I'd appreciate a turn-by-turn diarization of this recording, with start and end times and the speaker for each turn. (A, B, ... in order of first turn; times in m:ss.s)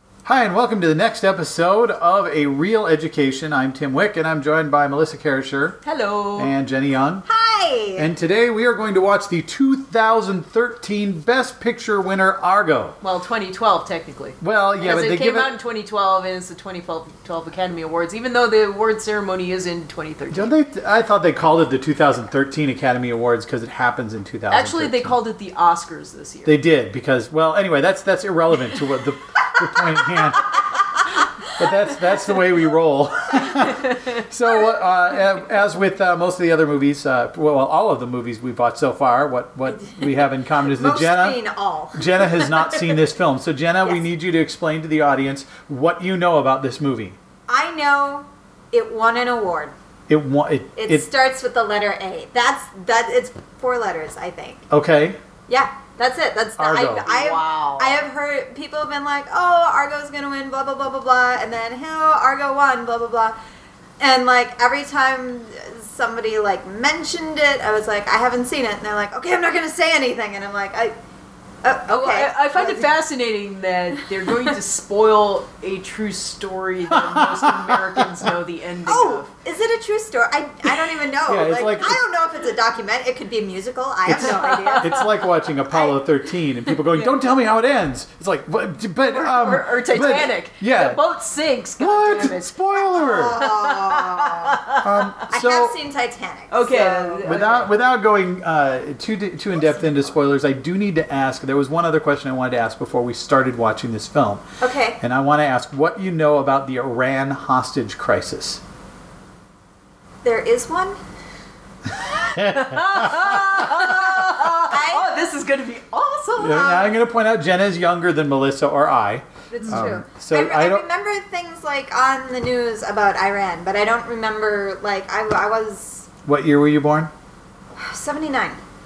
0:00.2-0:05.8 A
0:05.8-0:06.5 B
0:06.4-0:07.2 A
0:07.3-0:08.1 C
0:08.0-0:13.0 A
0:13.0-0:20.5 B
0:14.4-0:15.5 A
0:20.3-0:25.2 A
0:24.5-0:26.6 B
0:26.4-0:30.8 A
0:31.5-0:41.4 A
0:33.9-0:34.2 B
0:40.7-0:42.5 C
0:41.9-0:47.2 A
0:47.5-0:49.7 C
0:50.1-0:51.1 A
0:50.8-0:54.6 C
0:54.7-0:55.2 A
0:55.5-1:03.4 C
0:56.6-0:57.1 A
0:57.0-0:58.1 B
1:04.0-1:10.9 C
1:11.6-1:12.9 C
1:11.9-1:19.3 B
1:14.2-1:14.6 C
1:16.9-1:18.0 A
1:18.9-1:26.0 C
1:21.2-1:22.0 A
1:24.0-1:31.0 A
1:24.2-1:25.0 B
1:29.1-1:32.6 B
1:31.8-1:33.4 A
1:32.9-1:34.6 C
1:33.4-1:34.9 B
1:34.8-1:35.7 A
1:35.3-1:37.4 C
1:36.5-1:37.7 B
1:37.2-1:44.4 A
1:44.6-1:45.0 C
1:45.0-1:48.6 A
1:50.2-1:51.0 C
1:52.1-1:56.9 B
1:52.3-1:53.6 A
1:53.7-1:55.2 C
1:56.4-2:00.8 A
1:59.5-2:06.1 C
2:06.2-2:07.1 A
2:07.7-2:08.6 C